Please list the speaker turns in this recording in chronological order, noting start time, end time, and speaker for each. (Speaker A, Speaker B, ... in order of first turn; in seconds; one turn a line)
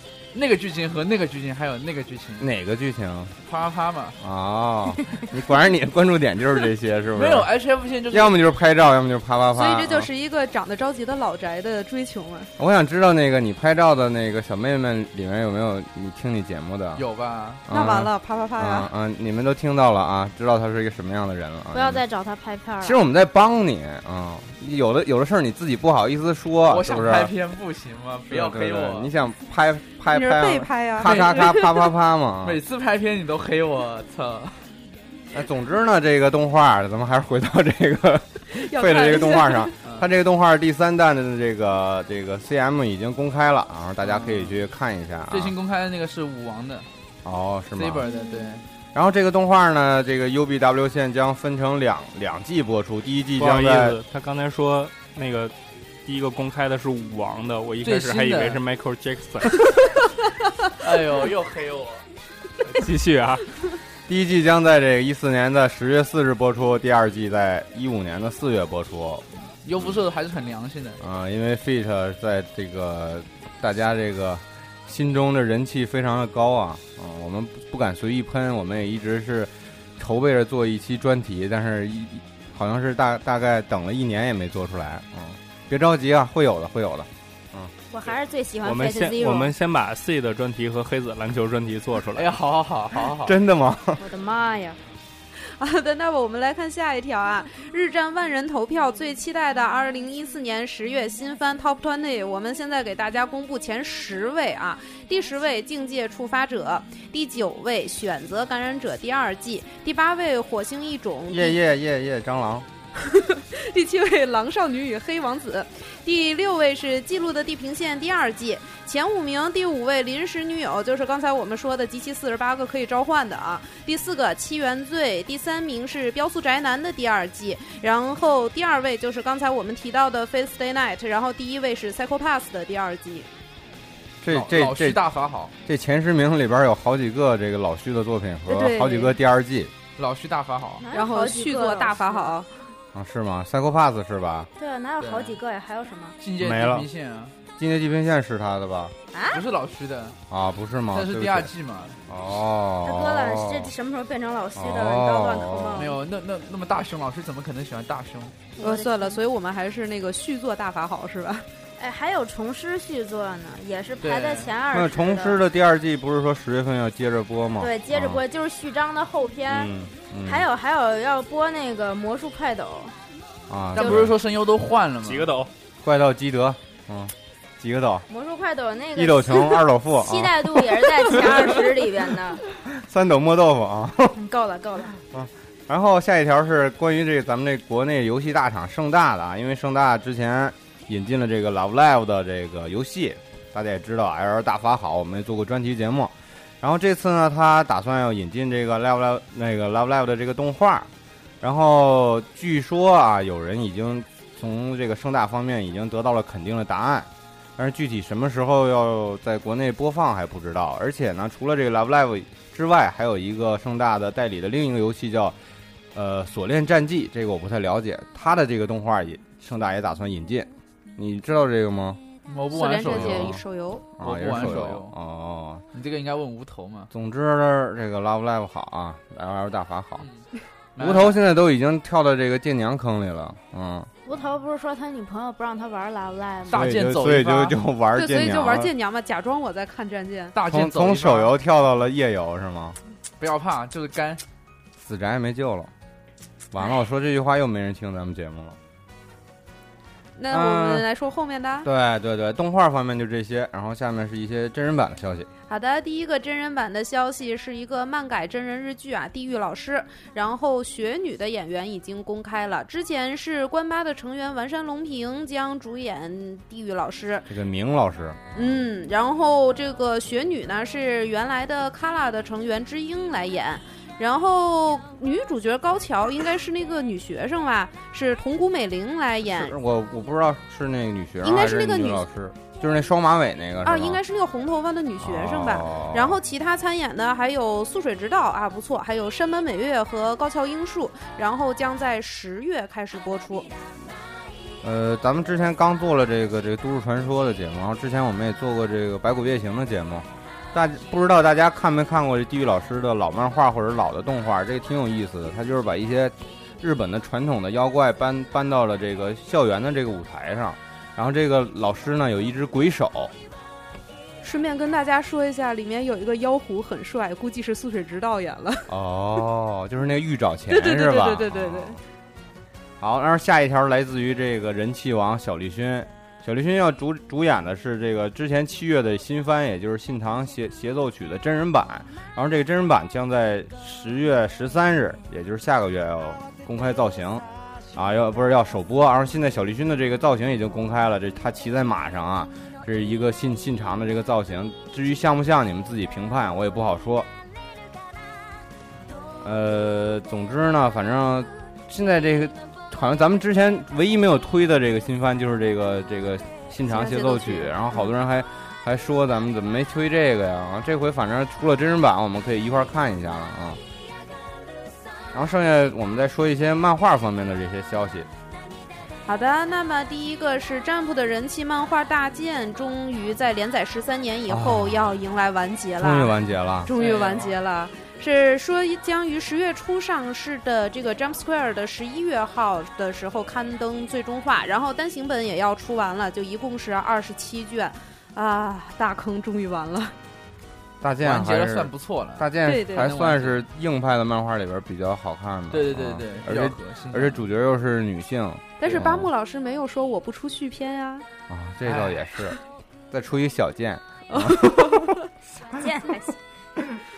Speaker A: 0.3-2.5
Speaker B: 2.4-3.4
Speaker A: 3.5-4.2
Speaker B: 4.2-7.5
Speaker A: 7.2-8.4
Speaker B: 8.1-10.1
Speaker C: 9.5-12.5
Speaker B: 12.6-17.0
Speaker A: 16.9-17.6
Speaker B: 17.7-22.0
Speaker C: 17.7-18.9
Speaker D: 21.7-23.0
Speaker B: 22.8-27.3
Speaker A: 26.7-29.1
Speaker B: 28.3-32.6
Speaker C: 30.1-31.9
Speaker A: 31.0-31.4
Speaker A: 32.4-34.7
Speaker B: 35.3-45.5
Speaker C: 38.5-39.8
Speaker A: 44.0-44.6
Speaker A: 45.3-46.9
Speaker B: 47.2-48.1
Speaker A: 47.7-48.6
Speaker B: 48.9-54.0
Speaker E: 53.4-55.5
Speaker E: 56.0-59.6
Speaker A: 57.8-58.6
Speaker A: 60.8-62.0
Speaker E: 62.7-63.5
Speaker B: 64.1-70.0
Speaker A: 69.6-71.0
Speaker B: 71.0-87.7
Speaker D: 87.9-89.5
Speaker E: 88.6-92.3
Speaker A: 92.2-93.4
Speaker B: 93.2-94.0
Speaker D: 94.0-94.8
Speaker C: 95.6-111.6
Speaker B: 111.3-112.7
Speaker C: 113.0-133.3
Speaker B: 134.2-135.0
Speaker A: 134.3-135.5
Speaker B: 135.7-139.7
Speaker C: 138.5-139.2
Speaker A: 140.0-140.8
Speaker D: 140.8-142.4
Speaker C: 140.9-142.5
Speaker B: 142.9-144.5
Speaker D: 144.6-146.2
Speaker A: 145.0-145.4
Speaker A: 146.2-147.3
Speaker B: 146.4-146.9
Speaker B: 147.6-148.9
Speaker A: 149.3-150.2
Speaker B: 150.3-151.5
Speaker A: 150.9-152.0
Speaker B: 152.1-153.7
Speaker D: 152.8-155.9
Speaker B: 154.6-155.9
Speaker A: 155.8-158.4
Speaker D: 158.6-159.2
Speaker C: 158.6-161.5
Speaker D: 161.8-165.4
Speaker A: 164.0-164.5
Speaker B: 164.7-168.2
Speaker D: 167.6-169.7
Speaker B: 169.5-170.5
Speaker D: 170.2-173.0
Speaker B: 173.5-174.2
Speaker A: 173.8-175.4
Speaker E: 175.0-175.5
Speaker B: 175.8-178.1
Speaker D: 178.1-182.4
Speaker B: 179.0-181.4
Speaker B: 182.7-184.2
Speaker D: 184.1-185.0
Speaker B: 185.1-200.9
Speaker B: 201.4-215.4
Speaker B: 215.9-222.0
Speaker A: 222.3-223.4
Speaker C: 222.5-223.8
Speaker B: 222.9-223.4
Speaker B: 224.0-225.6
Speaker A: 224.0-224.9
Speaker A: 225.7-226.9
Speaker B: 226.9-230.1
Speaker A: 230.8-231.2
Speaker B: 230.8-233.9
Speaker D: 234.1-236.6
Speaker A: 236.5-237.6
Speaker B: 236.5-238.7
Speaker C: 238.0-240.4
Speaker A: 240.3-241.3
Speaker B: 240.4-242.8
Speaker A: 243.2-244.2
Speaker B: 244.8-245.7
Speaker B: 246.5-248.6
Speaker C: 250.2-251.7
Speaker B: 250.3-250.9
Speaker B: 251.6-255.3
Speaker C: 255.5-267.3
Speaker B: 267.3-268.6
Speaker C: 268.4-279.5
Speaker B: 279.3-284.0
Speaker C: 281.2-282.1
Speaker C: 283.6-293.5
Speaker B: 285.0-286.2
Speaker B: 294.6-313.1
Speaker C: 314.2-318.7
Speaker B: 318.7-321.8
Speaker C: 320.5-321.8
Speaker B: 322.8-347.1
Speaker B: 349.2-363.6
Speaker C: 356.7-357.9
Speaker B: 365.1-368.1
Speaker C: 369.1-389.9
Speaker B: 374.3-375.0
Speaker B: 375.8-376.7
Speaker A: 376.8-377.4
Speaker B: 390.8-399.1
Speaker A: 391.0-393.4
Speaker C: 392.4-392.9
Speaker A: 395.5-397.3
Speaker C: 398.6-401.1
Speaker B: 401.3-402.4
Speaker A: 401.6-402.1
Speaker B: 402.9-405.0
Speaker C: 404.1-405.1
Speaker D: 405.4-406.2